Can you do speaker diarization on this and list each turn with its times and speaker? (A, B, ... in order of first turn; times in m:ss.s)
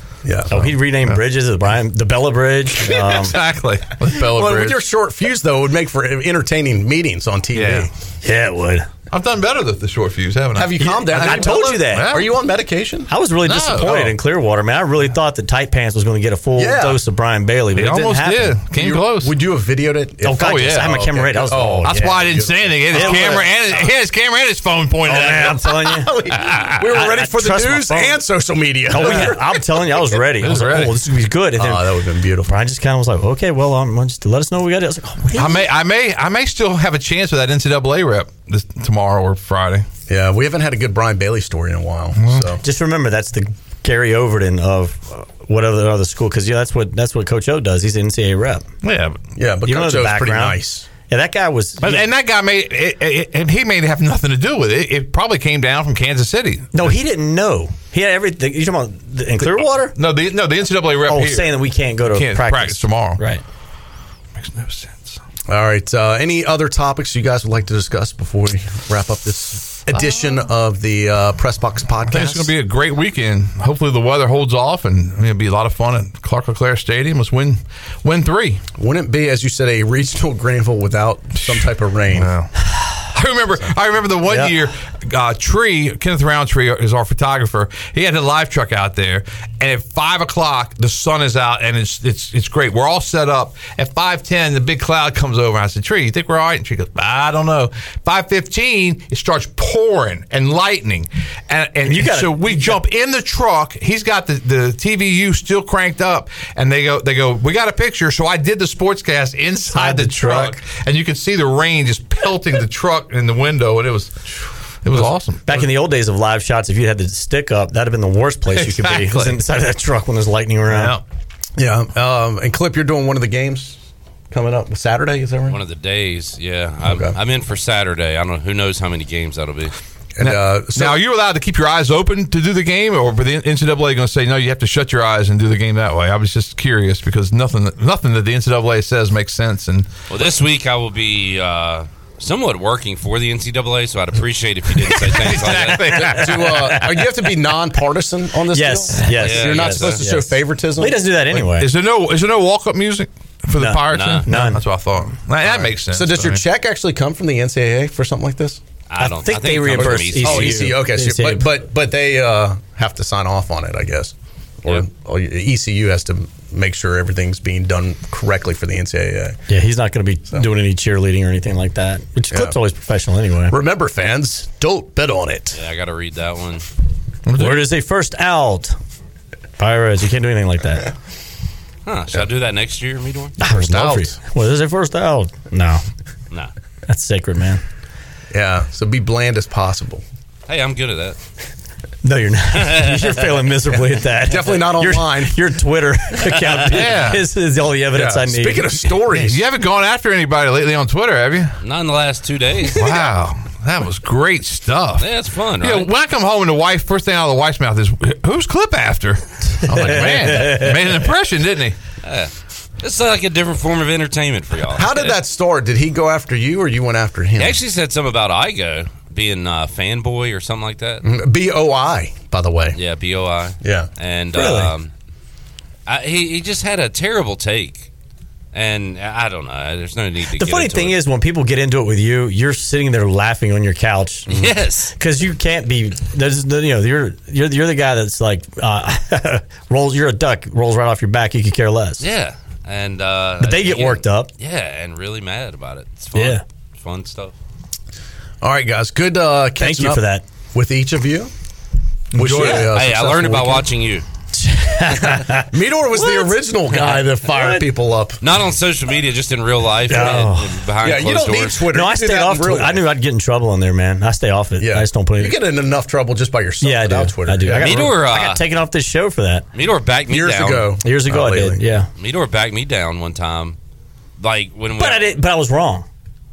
0:00.2-0:00.8 A
0:00.5-0:03.4 B
0:02.8-0:04.8 C
0:04.0-0:07.9 A
0:07.5-0:07.9 C
0:08.2-0:08.9 B
0:09.1-0:12.3 C
0:10.6-0:13.1 A
0:10.8-0:12.2 B
0:13.1-0:18.6 B
0:13.4-0:14.2 C
0:16.6-0:17.0 A
0:17.8-0:19.3 C
0:18.7-0:23.8 A
0:20.2-0:22.1 B
0:20.3-0:20.9 C
0:21.8-0:25.6 C
0:22.9-0:23.5 B
0:25.1-0:26.1 B
0:25.1-0:30.0 A
0:26.5-0:26.8 C
0:26.8-0:28.2 B
0:28.9-0:31.9 B
0:30.4-0:31.0 C
0:31.6-0:32.6 A
0:32.4-0:35.7 B
0:35.3-0:39.9 C
0:40.1-0:42.6 A
0:42.2-0:42.5 C
0:42.6-0:48.6 B
0:48.8-0:49.2 C
0:49.4-0:50.9 A
0:49.7-0:52.1 B
0:51.8-0:56.9 C
0:56.7-1:00.0 B
0:59.9-1:03.2 C
1:01.1-1:03.4 B
1:04.4-1:05.2 C
1:05.5-1:12.5 A
1:12.1-1:18.6 C
1:18.8-1:22.3 A
1:21.4-1:54.2 C
1:24.2-1:24.5 B
1:41.8-1:42.8 B
1:49.7-1:50.6 B
1:54.8-1:55.4 C
1:55.0-1:55.6 A
1:55.4-2:01.0 B
1:58.5-1:59.4 C
2:00.7-2:01.0 C
2:01.6-2:03.8 A
2:04.3-2:05.6 A
2:05.5-2:09.7 D
2:06.8-2:07.2 A
2:10.2-2:11.0 A
2:10.2-2:19.9 C
2:20.1-2:26.1 D
2:25.2-2:26.6 C
2:25.6-2:31.0 A
2:25.8-2:27.1 B
2:28.5-2:31.7 B
2:29.1-2:30.0 D
2:31.5-2:36.4 C
2:33.5-2:34.6 B
2:33.9-2:34.3 D
2:35.4-2:38.6 A
2:38.9-2:40.6 D
2:39.0-2:41.5 B
2:39.7-2:49.4 A
2:49.5-2:53.6 B
2:53.5-2:55.6 A
2:55.5-2:56.6 D
2:57.3-2:57.7 C
2:57.4-2:58.8 B
2:59.6-3:01.0 B
3:01.8-3:03.4 D
3:03.4-3:05.8 B
3:03.5-3:04.2 A
3:06.9-3:07.6 B
3:08.3-3:10.0 A
3:10.5-3:11.2 D
3:12.0-3:18.9 B
3:12.5-3:13.2 D
3:14.2-3:15.4 A
3:16.3-3:16.6 D
3:16.7-3:17.2 C
3:17.9-3:19.4 A
3:19.1-3:21.6 C
3:21.6-3:23.0 D
3:22.7-3:25.1 C
3:25.0-3:25.9 D
3:25.6-3:31.8 C
3:29.7-3:30.8 B
3:32.0-3:35.2 D
3:34.7-3:37.6 A
3:37.4-3:41.0 D
3:41.0-3:42.8 A
3:42.7-3:44.9 D
3:43.6-3:43.9 A
3:44.3-3:44.7 B
3:45.9-3:47.9 D
3:48.5-3:51.0 D
3:50.4-3:54.4 B
3:54.3-3:54.9 D
3:55.0-4:02.0 B
4:02.0-4:07.3 D
4:03.4-4:04.3 B
4:06.1-4:06.4 B
4:08.4-4:11.3 A
4:09.6-4:10.2 B
4:12.1-4:13.7 A
4:12.2-4:12.6 C
4:12.3-4:12.6 B
4:12.3-4:14.0 D
4:14.3-4:17.6 B
4:15.5-4:18.2 A
4:18.2-4:21.6 D
4:19.9-4:20.6 B
4:20.8-4:22.8 A
4:21.7-4:25.4 B
4:24.6-4:27.9 A
4:26.6-4:29.4 B
4:27.5-4:28.4 D
4:29.5-4:30.7 D
4:30.1-4:31.6 A
4:30.8-4:31.9 B
4:32.0-4:33.6 D
4:34.2-4:35.1 D
4:34.8-4:35.8 B